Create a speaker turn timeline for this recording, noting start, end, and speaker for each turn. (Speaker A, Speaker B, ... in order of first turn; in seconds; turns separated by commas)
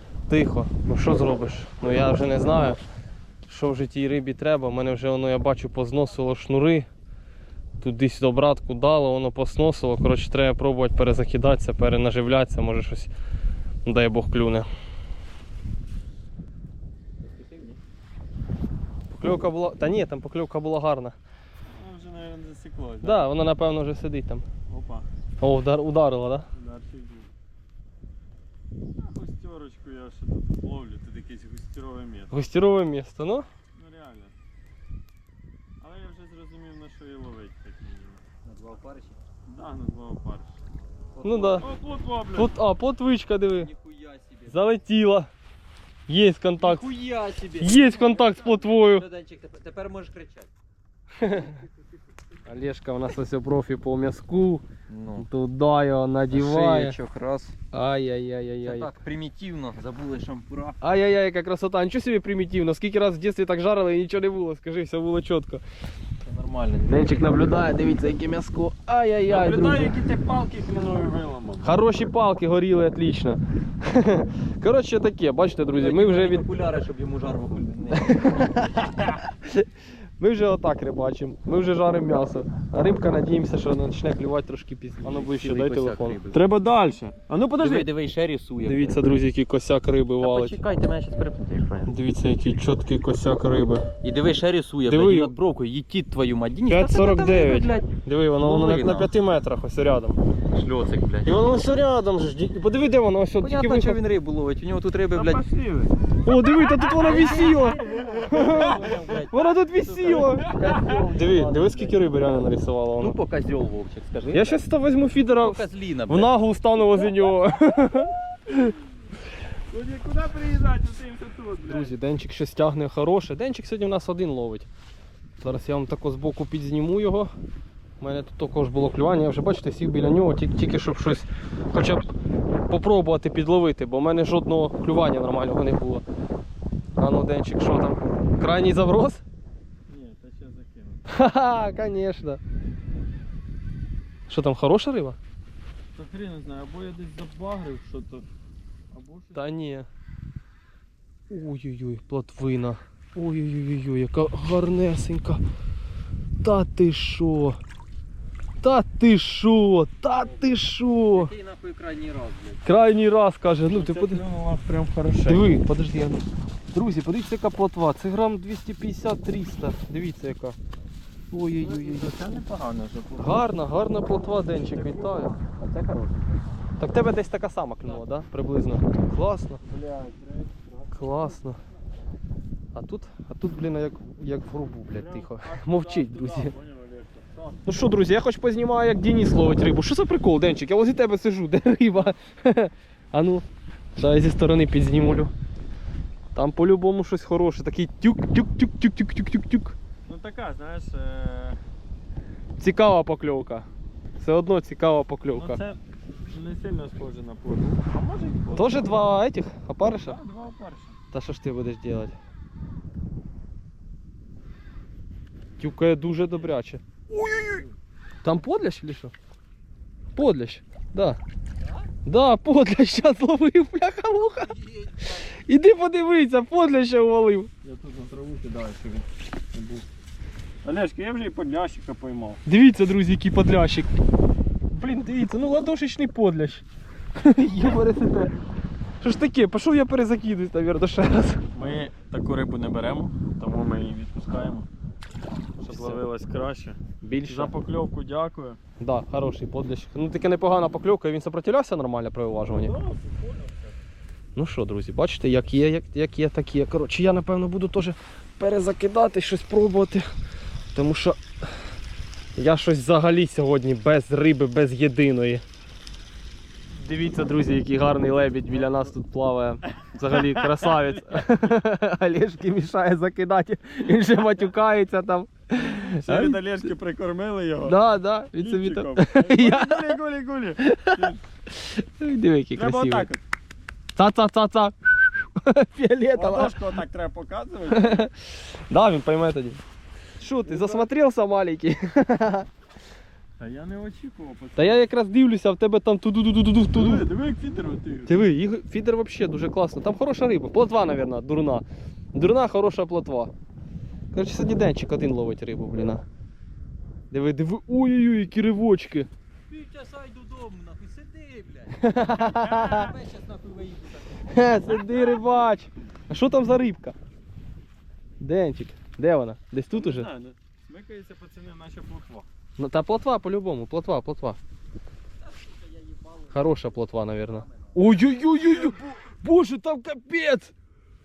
Speaker A: 0.3-2.8, Speaker A: 3.5-6.9, Speaker A: 7.8-13.1, Speaker A: 13.8-14.7, Speaker B: 17.4-17.8, Speaker A: 19.1-21.2, Speaker B: 21.7-23.2, Speaker A: 23.0-24.4, Speaker B: 24.7-25.1, Speaker A: 25.4-26.5, Speaker B: 26.6-27.3, Speaker B: 29.0-32.4, Speaker A: 32.3-33.5, Speaker B: 33.8-34.3, Speaker B: 35.8-38.2, Speaker C: 38.5-39.2, Speaker B: 39.5-40.6, Speaker C: 41.1-41.7, Speaker A: 41.2-41.7, Speaker B: 41.5-42.5, Speaker A: 42.3-43.7, Speaker C: 43.5-44.6, Speaker A: 44.5-45.3, Speaker A: 46.1-46.9, Speaker C: 46.6-50.5, Speaker A: 47.6-49.1, Speaker A: 51.2-51.6, Speaker C: 51.4-51.7, Speaker A: 52.5-57.0, Speaker C: 54.9-55.3, Speaker C: 56.3-57.6, Speaker A: 57.7-58.9, Speaker C: 58.6-60.8, Speaker A: 60.8-65.6, Speaker C: 66.2-67.5, Speaker A: 66.9-69.9, Speaker B: 69.3-71.7, Speaker A: 71.6-76.5, Speaker C: 75.7-78.7, Speaker A: 77.9-79.7, Speaker A: 80.2-86.2, Speaker C: 85.0-86.4, Speaker B: 86.3-87.9, Speaker C: 87.6-89.0, Speaker A: 88.7-90.6, Speaker C: 90.2-91.9, Speaker A: 91.9-93.9, Speaker C: 94.0-99.1, Speaker A: 94.9-95.3, Speaker A: 96.7-100.2, Speaker C: 100.5-101.4, Speaker A: 101.2-104.0, Speaker C: 103.4-105.4, Speaker B: 105.1-106.0, Speaker A: 106.2-113.2, Speaker C: 107.0-112.0, Speaker B: 107.7-108.9, Speaker B: 110.1-111.2, Speaker C: 113.0-114.6, Speaker A: 114.3-118.6, Speaker C: 115.3-116.3, Speaker B: 119.7-121.9, Speaker A: 121.7-124.7, Speaker A: 125.4-127.3, Speaker A: 128.0-132.1, Speaker A: 132.7-136.0, Speaker A: 137.0-139.2, Speaker B: 139.9-141.0, Speaker A: 141.1-142.4, Speaker A: 144.3-145.2, Speaker B: 145.9-148.3, Speaker B: 148.9-149.5, Speaker A: 149.3-149.9, Speaker A: 151.3-155.4, Speaker A: 156.4-157.6, Speaker A: 158.6-161.3, Speaker C: 161.1-162.6, Speaker A: 162.6-164.2, Speaker B: 163.7-165.5, Speaker A: 165.3-166.2, Speaker A: 166.7-170.6, Speaker A: 171.3-172.1, Speaker C: 171.6-172.1, Speaker B: 171.6-173.3, Speaker C: 172.8-173.2, Speaker A: 173.2-175.4, Speaker B: 174.6-175.4, Speaker C: 175.6-176.1, Speaker A: 176.8-179.6, Speaker B: 179.6-181.4, Speaker A: 180.9-181.6, Speaker A: 182.8-186.5, Speaker B: 184.9-187.7, Speaker A: 187.7-193.4, Speaker A: 194.0-195.3, Speaker A: 196.3-199.8, Speaker B: 200.1-201.6, Speaker A: 202.6-203.7, Speaker A: 204.2-205.6, Speaker B: 205.3-208.9, Speaker A: 208.6-210.2, Speaker B: 209.8-211.0, Speaker A: 211.1-212.2, Speaker A: 215.6-216.8, Speaker B: 217.1-217.7, Speaker A: 218.2-219.1, Speaker A: 220.2-221.2, Speaker A: 222.1-227.5, Speaker B: 227.6-229.8, Speaker B: 230.6-232.4, Speaker A: 232.5-233.9, Speaker A: 234.7-236.6, Speaker A: 237.2-238.3, Speaker A: 239.0-241.4, Speaker B: 241.5-244.7, Speaker A: 245.6-246.0, Speaker B: 245.6-248.6, Speaker A: 247.0-247.5, Speaker A: 248.8-252.8, Speaker B: 252.5-253.7, Speaker A: 254.4-260.1, Speaker A: 260.7-261.5, Speaker A: 262.4-265.4, Speaker A: 266.8-276.4, Speaker B: 268.6-268.8, Speaker B: 270.1-270.8, Speaker B: 275.6-277.8, Speaker A: 277.6-280.0, Speaker B: 278.4-281.2, Speaker A: 280.6-283.1, Speaker B: 282.6-283.2, Speaker A: 284.0-286.6, Speaker B: 286.1-288.1, Speaker A: 287.7-289.6, Speaker A: 290.2-292.5, Speaker B: 290.4-290.9, Speaker B: 293.4-294.8, Speaker A: 294.6-297.1, Speaker B: 296.7-298.2, Speaker A: 298.1-303.3, Speaker A: 304.1-306.0, Speaker A: 307.1-309.1, Speaker C: 309.5-314.8, Speaker A: 311.7-312.9, Speaker B: 312.3-313.0, Speaker A: 314.3-316.9, Speaker A: 318.2-320.1, Speaker B: 319.7-322.3, Speaker A: 322.6-324.4, Speaker C: 325.7-327.7, Speaker A: 326.3-330.5